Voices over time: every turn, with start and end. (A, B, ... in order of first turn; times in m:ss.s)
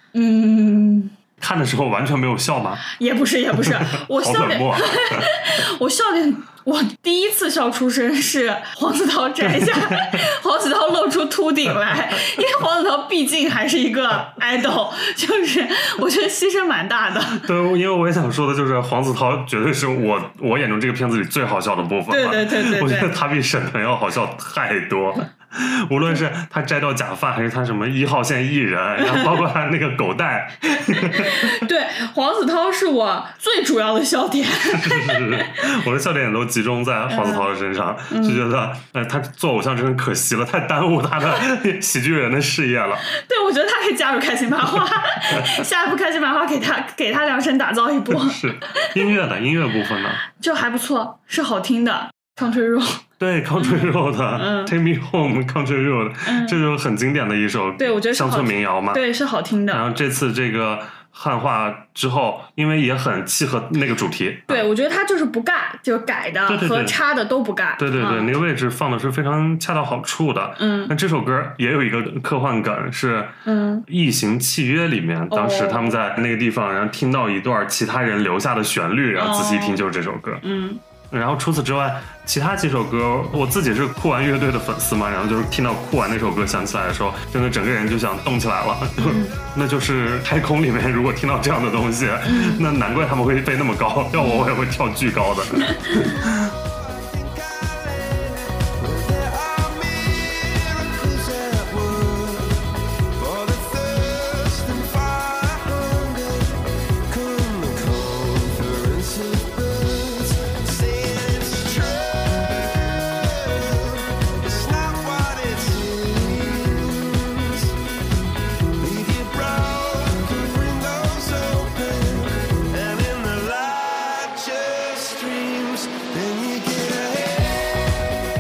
0:00.1-0:01.1 A
0:01.4-0:02.8 B
0:02.9-0:17.5 A
0:03.6-0:05.3 B
0:09.5-0:10.2 B
0:17.4-0:31.6 B
0:22.1-0:23.1 A
0:29.0-0:29.3 A
0:30.9-0:35.6 A
0:34.6-0:43.0 B
0:37.1-0:37.5 A
0:38.1-0:38.4 A
0:43.1-0:49.0 A
0:48.1-0:50.2 B
0:50.3-0:53.0 A
0:53.2-0:59.0 B
0:53.6-0:54.7 A
0:56.2-0:56.6 A
0:57.8-0:59.9 A
0:59.7-1:04.7 B
1:04.5-1:08.3 A
1:06.5-1:07.0 B
1:07.8-1:20.4 B
1:10.6-1:10.9 A
1:13.4-1:13.8 A
1:15.3-1:16.0 A
1:19.2-1:19.8 A
1:20.4-1:20.8 A
1:21.1-1:36.4 B
1:29.0-1:29.3 A
1:32.2-1:32.6 A
1:34.2-1:34.5 A
1:36.6-1:57.8 C
1:58.8-2:08.0 C